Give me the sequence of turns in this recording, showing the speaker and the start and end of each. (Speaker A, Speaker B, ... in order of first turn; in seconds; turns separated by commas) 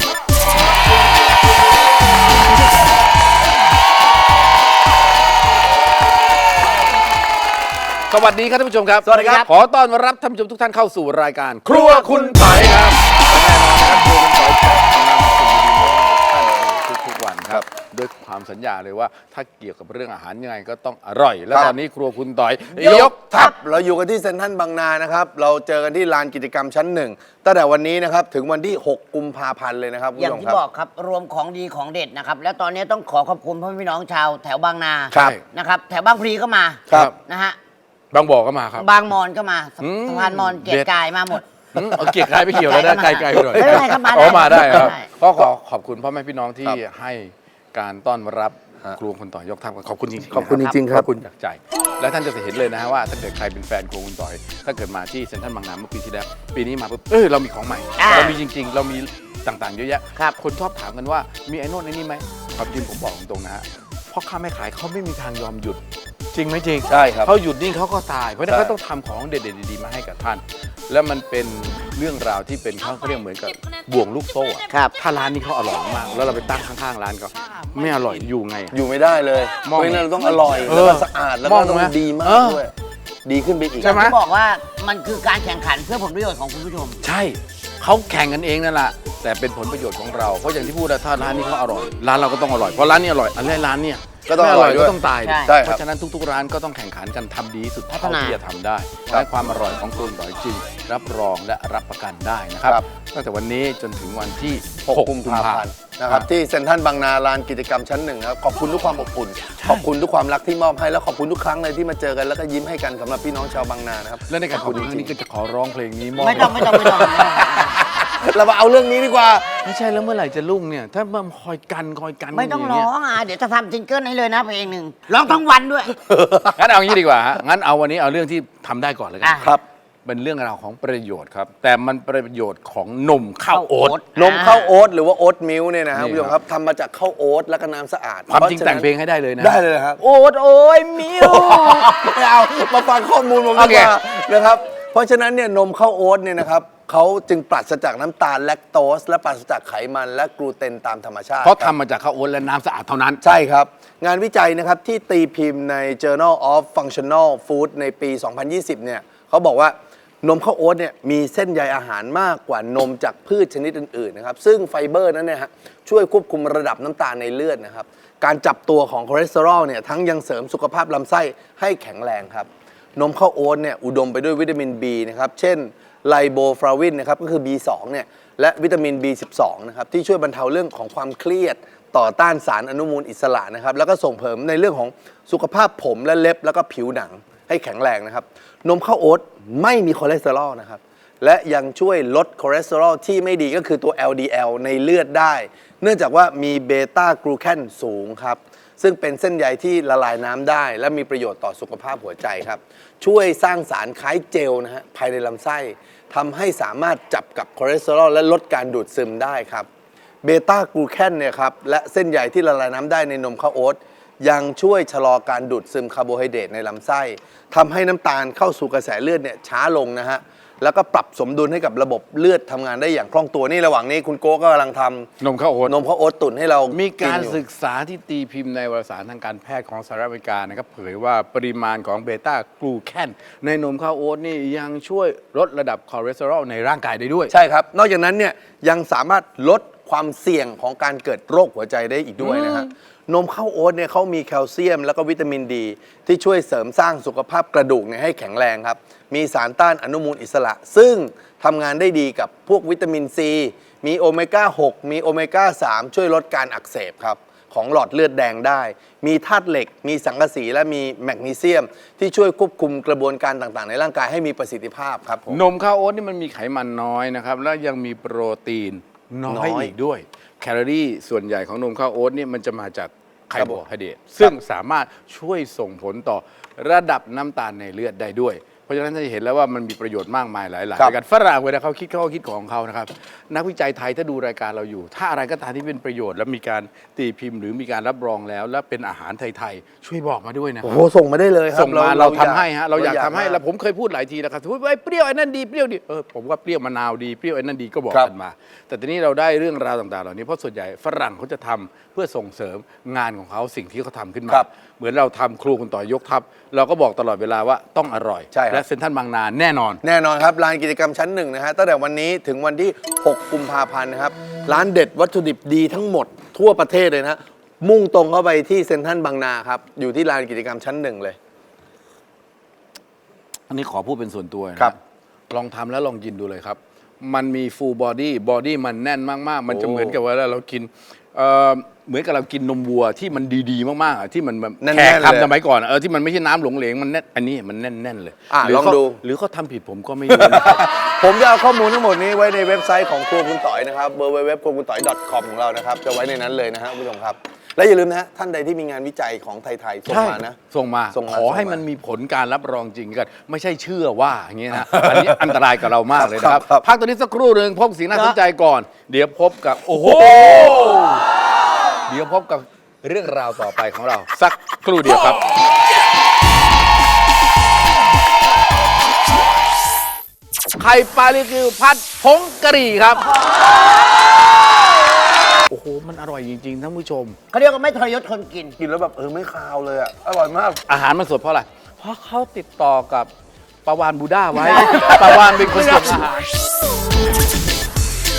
Speaker A: 8.1-23.2, Speaker B: 9.0-9.5, Speaker C: 9.1-9.5, Speaker B: 21.5-21.8, Speaker B: 22.7-30.6, Speaker C: 22.8-23.6, Speaker C: 30.2-37.6, Speaker A: 35.1-35.4, Speaker A: 38.1-38.9, Speaker C: 38.8-45.1, Speaker A: 39.8-40.9, Speaker A: 41.7-65.8, Speaker B: 43.3-43.8, Speaker B: 44.5-44.9, Speaker B: 50.3-51.1, Speaker C: 58.0-58.4, Speaker A: 66.3-78.8, Speaker B: 66.9-67.3, Speaker B: 68.5-68.7, Speaker B: 78.7-82.7, Speaker A: 79.6-82.6, Speaker B: 83.2-84.0, Speaker C: 83.8-87.0, Speaker A: 83.8-84.2, Speaker A: 87.0-106.3, Speaker B: 94.3-95.8, Speaker C: 95.2-95.6, Speaker C: 97.9-98.4, Speaker B: 104.9-115.2, Speaker A: 109.6-109.9, Speaker A: 114.3-117.9, Speaker C: 116.2-117.8, Speaker B: 117.9-119.5, Speaker A: 119.6-122.9, Speaker C: 122.3-126.0, Speaker B: 126.0-126.6, Speaker A: 126.5-129.5, Speaker C: 129.2-129.5, Speaker A: 130.1-134.0, Speaker C: 133.5-134.8, Speaker B: 134.2-140.0, Speaker A: 135.9-136.4, Speaker A: 138.3-141.9, Speaker B: 141.0-151.7, Speaker A: 143.6-143.9, Speaker A: 151.4-153.2, Speaker B: 153.2-209.7, Speaker B: 210.2-225.1, Speaker A: 225.2-225.8, Speaker B: 225.7-227.4, Speaker A: 226.7-237.3, Speaker B: 237.3-265.4, Speaker A: 242.2-242.7, Speaker A: 265.3-290.9, Speaker B: 269.3-269.7, Speaker B: 273.4-273.6, Speaker B: 290.6-293.4, Speaker A: 291.5-309.8, Speaker B: 308.3-308.6, Speaker B: 309.8-321.2, Speaker A: 323.5-324.8, Speaker A: 325.3-340.7, Speaker B: 329.5-330.0, Speaker B: 334.6-335.3, Speaker B: 338.3-339.0, Speaker B: 340.1-350.4, Speaker A: 349.9-361.0, Speaker B: 350.9-351.7, Speaker B: 354.5-355.4, Speaker B: 355.9-356.7, Speaker B: 360.0-360.5, Speaker A: 361.9-365.3, Speaker A: 370.6-373.1, Speaker A: 375.5-377.2, Speaker C: 377.3-378.6, Speaker B: 378.6-380.6, Speaker A: 380.7-383.1, Speaker A: 383.7-386.3, Speaker C: 384.5-385.0